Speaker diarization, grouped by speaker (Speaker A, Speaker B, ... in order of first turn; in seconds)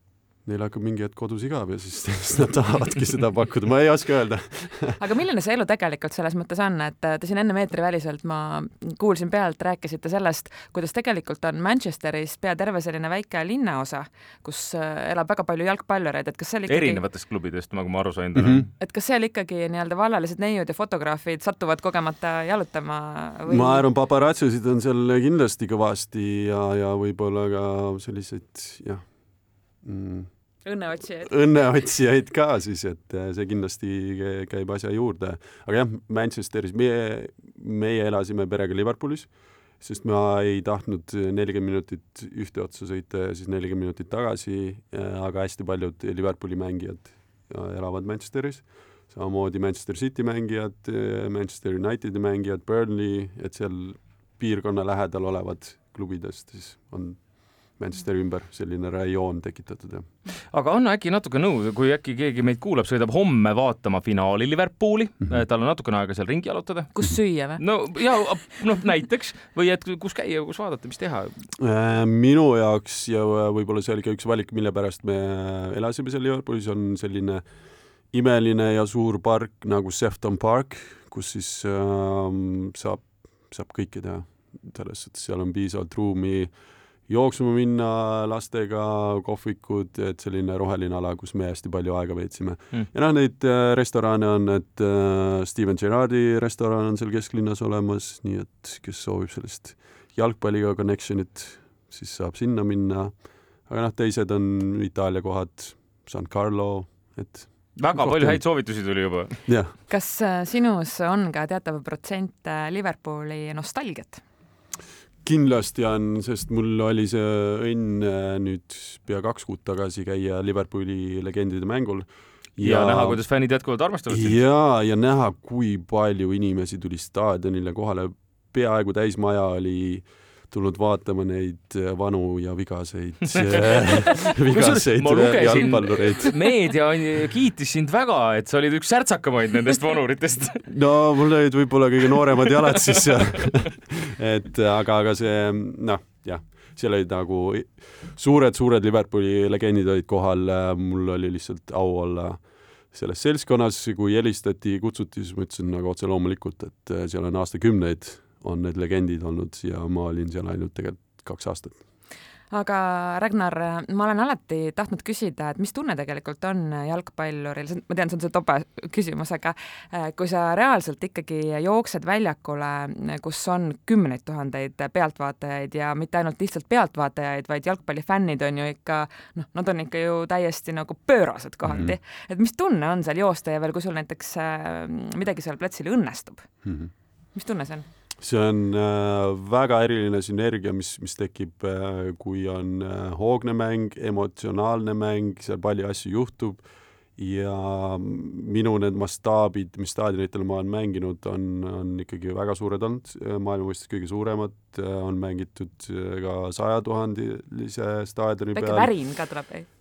Speaker A: 0.4-5.0, 18.3-18.7, 23.5-30.6, 31.2-60.1, 71.6-77.5, 78.0-109.7, 115.2-123.2, 124.1-136.3, 140.7-161.8, 181.6-181.9, 186.6-186.9, 188.2-208.9
Speaker B: 5.0-17.0, 18.8-23.9, 30.6-31.3, 66.9-68.2, 109.9-114.2, 162.5-186.5, 187.3-187.9, 208.5-209.7
Speaker C: 16.7-18.7, 60.5-71.3, 107.8-109.4, 122.6-124.4, 134.4-140.6